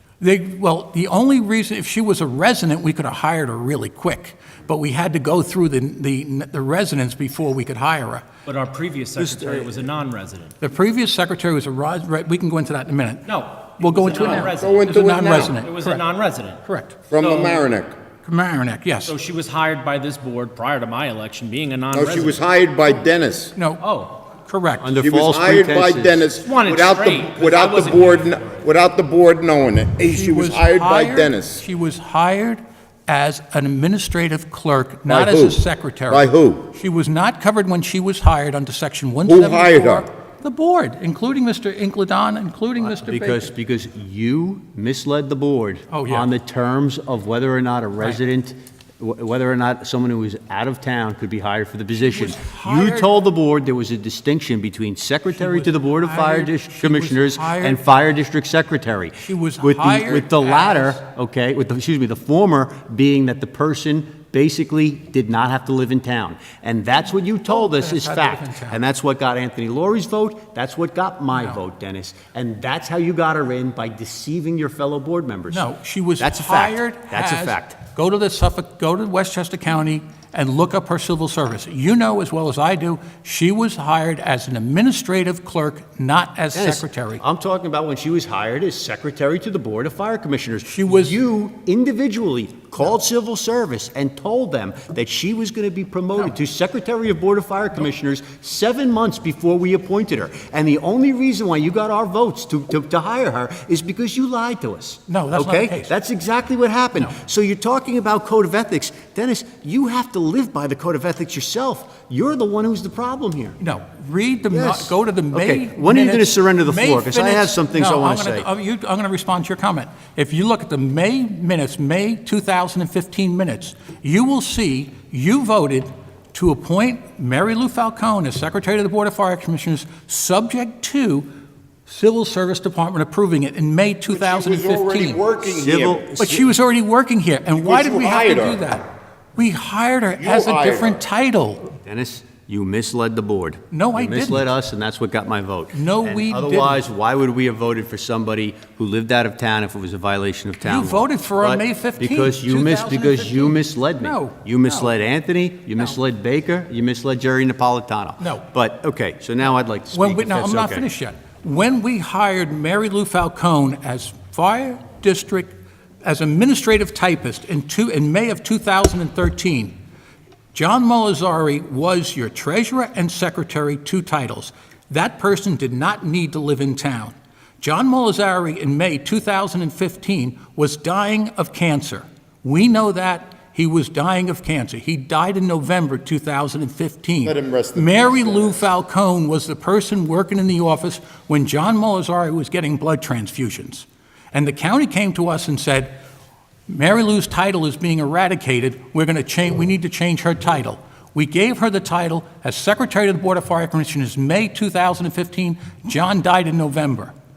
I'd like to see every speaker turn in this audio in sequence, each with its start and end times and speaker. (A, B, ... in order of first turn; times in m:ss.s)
0:00.2-0:08.3 A
0:08.5-0:10.6 B
0:09.2-0:09.7 A
0:10.6-0:16.0 A
0:13.3-0:17.7 B
0:14.1-0:15.6 C
0:16.6-0:17.0 A
0:17.1-0:17.9 C
0:18.2-0:19.2 A
0:19.1-0:22.4 B
0:21.9-0:23.5 C
0:23.6-0:25.0 A
0:23.8-0:24.2 B
0:24.8-0:26.3 D
0:25.0-0:31.6 C
0:26.4-0:28.7 B
0:30.0-0:43.5 A
0:35.1-0:36.7 C
0:39.3-0:40.0 C
0:42.8-1:15.7 D
0:45.9-0:46.3 A
0:52.0-0:53.1 A
0:55.4-0:57.8 A
0:59.2-1:01.0 A
1:07.5-1:08.8 A
1:15.5-1:27.2 A
1:16.2-1:17.8 D
1:26.5-1:53.6 D
1:30.7-1:31.2 A
1:45.1-1:45.9 A
1:53.6-2:11.3 A
1:54.5-1:58.5 D
2:11.9-2:15.3 A
2:14.1-2:16.4 C
2:15.5-2:16.1 D
2:16.2-2:21.7 A
2:17.6-2:18.6 C
2:20.2-2:21.0 C
2:21.9-2:40.9 D
2:23.7-2:24.5 A
2:25.7-2:26.8 A
2:30.6-2:34.9 A
2:38.2-2:38.5 A
2:39.9-2:49.7 A
2:50.5-3:16.0 A
3:07.2-3:08.7 C
3:16.7-3:27.1 A